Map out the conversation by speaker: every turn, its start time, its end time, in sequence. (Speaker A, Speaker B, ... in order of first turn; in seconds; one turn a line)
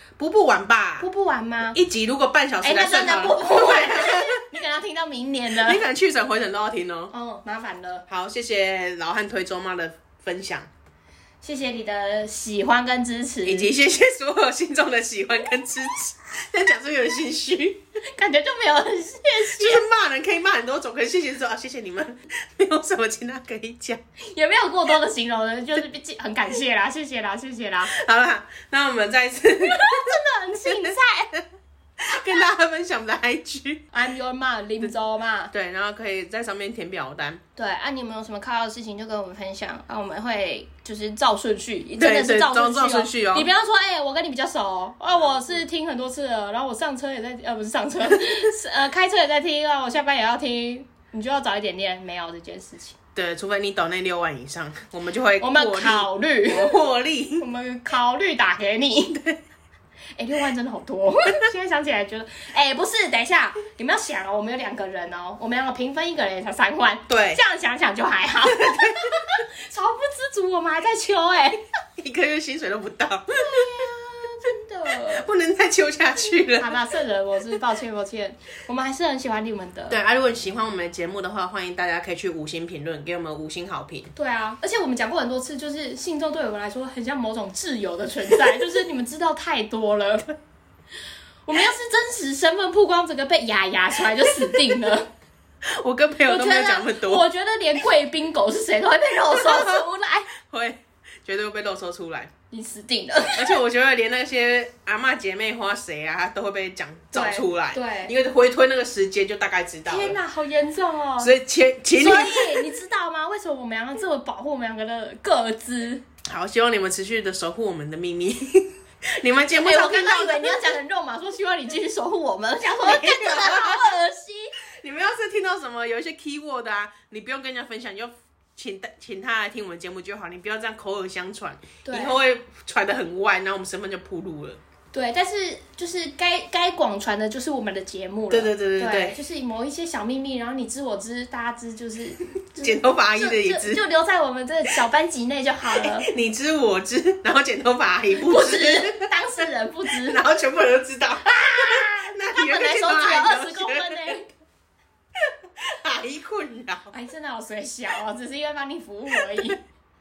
Speaker A: 0.2-1.1
Speaker B: 1.0-1.8
Speaker A: 1.7-4.4
Speaker B: 2.6-5.8
Speaker A: 5.6-7.1
Speaker B: 7.1-8.1
Speaker A: 8.1-10.7
Speaker B: 11.4-13.7
Speaker A: 13.5-17.8
Speaker B: 18.1-19.8
Speaker A: 19.5-24.0
Speaker B: 24.3-27.9
Speaker A: 27.8-30.2
Speaker B: 29.6-31.3
Speaker A: 30.7-31.4
Speaker A: 32.0-33.9
Speaker B: 33.9-35.5
Speaker A: 35.5-37.4
Speaker B: 37.6-53.0
Speaker A: 42.0-43.5
Speaker A: 53.1-57.5
Speaker B: 55.4-56.8
Speaker B: 57.4-59.1
Speaker A: 59.1-59.4
Speaker B: 60.2-71.6
Speaker A: 67.1-67.4
Speaker A: 68.5-69.2
Speaker A: 72.0-73.8
Speaker B: 73.3-75.3
Speaker A: 75.0-76.8
Speaker B: 76.4-80.0
Speaker A: 79.9-84.1
Speaker B: 84.2-90.3
Speaker B: 91.5-95.1
Speaker A: 95.7-97.3
Speaker B: 96.2-100.3
Speaker A: 99.4-99.8
Speaker A: 100.4-102.3
Speaker B: 102.5-103.6
Speaker A: 103.3-110.2
Speaker B: 107.1-108.1
Speaker B: 109.9-111.3
Speaker A: 111.2-112.7
Speaker B: 112.0-116.0
Speaker A: 116.2-120.6
Speaker B: 119.6-124.5
Speaker A: 122.8-123.9
Speaker A: 124.8-134.6
Speaker B: 131.8-132.2
Speaker B: 134.9-146.1
Speaker A: 138.3-139.2
Speaker A: 142.6-143.8
Speaker A: 145.8-149.1
Speaker B: 148.1-150.2
Speaker A: 150.0-154.2
Speaker B: 151.2-154.3
Speaker A: 155.6-156.9
Speaker B: 156.9-159.6
Speaker A: 159.2-159.5